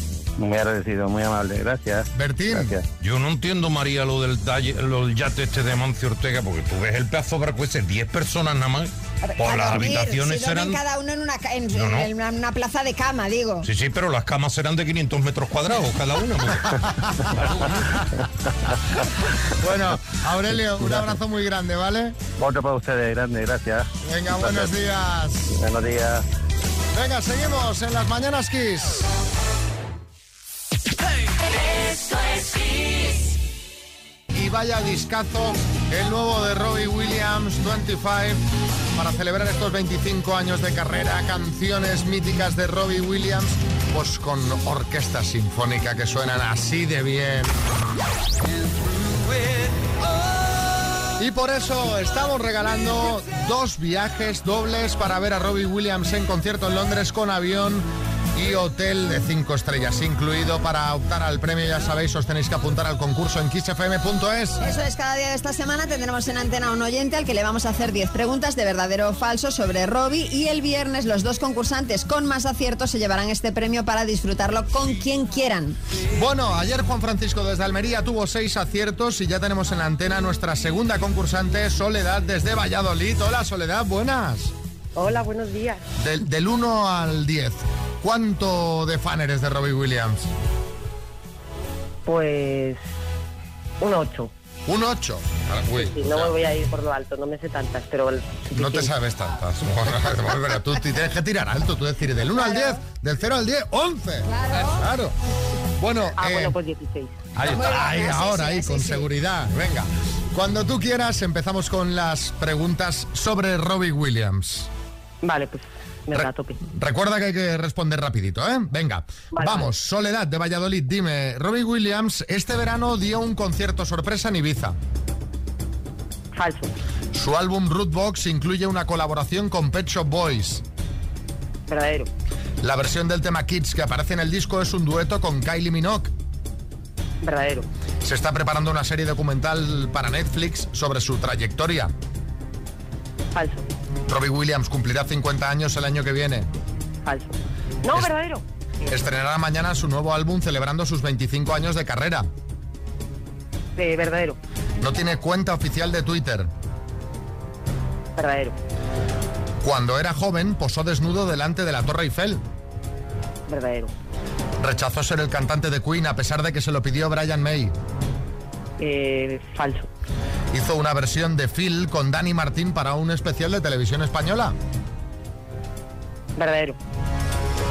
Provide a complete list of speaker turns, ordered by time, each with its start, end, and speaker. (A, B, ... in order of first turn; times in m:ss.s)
0:00.4-0:02.9 A
0:02.1-0:02.7 B
0:03.0-0:10.8 C
0:09.2-0:13.7 D
0:11.7-0:12.1 C
0:13.6-0:16.8 C
0:17.4-0:17.8 C
0:19.6-0:22.2 B
0:20.8-0:21.1 A
0:22.4-0:23.9 A
0:24.0-0:25.5 B
0:24.4-0:24.7 A
0:25.5-0:26.2 A
0:26.9-0:29.1 B
0:34.3-0:38.4 B
0:38.9-0:47.7 B
0:51.2-1:04.6 B
1:04.6-1:15.8 D
1:16.1-1:24.5 B
1:25.0-1:25.8 E
1:26.0-1:30.3 B
1:32.0-1:32.8 E
1:33.8-1:34.3 E
1:34.6-1:36.3 B
1:35.7-1:38.9 E
1:38.5-1:45.2 B
1:42.3-1:42.8 D
1:44.2-1:44.8 D
1:45.8-1:46.6 B
1:46.2-1:47.2 E
1:47.4-1:54.7 B
1:47.5-1:49.1 D
1:55.2-1:56.6 E
1:56.1-2:04.8 B
1:59.3-1:59.7 E
2:06.3-2:06.7 E
2:07.1-2:10.6 B
2:11.7-2:12.1 E
2:12.6-2:16.1 B
2:17.2-2:17.6 E
2:18.0-2:21.9 B
2:23.3-2:23.6 E
2:24.1-2:26.5 B
2:27.0-2:28.4 E
2:28.9-2:32.3 B
2:33.8-2:34.4 E
2:34.8-2:36.5 B
2:38.2-2:38.6 E
2:39.6-2:42.4 B
2:43.5-2:43.9 E
2:44.6-2:47.7 B
2:48.8-2:49.9 E
2:50.5-2:54.5 B
2:56.4-2:56.8 E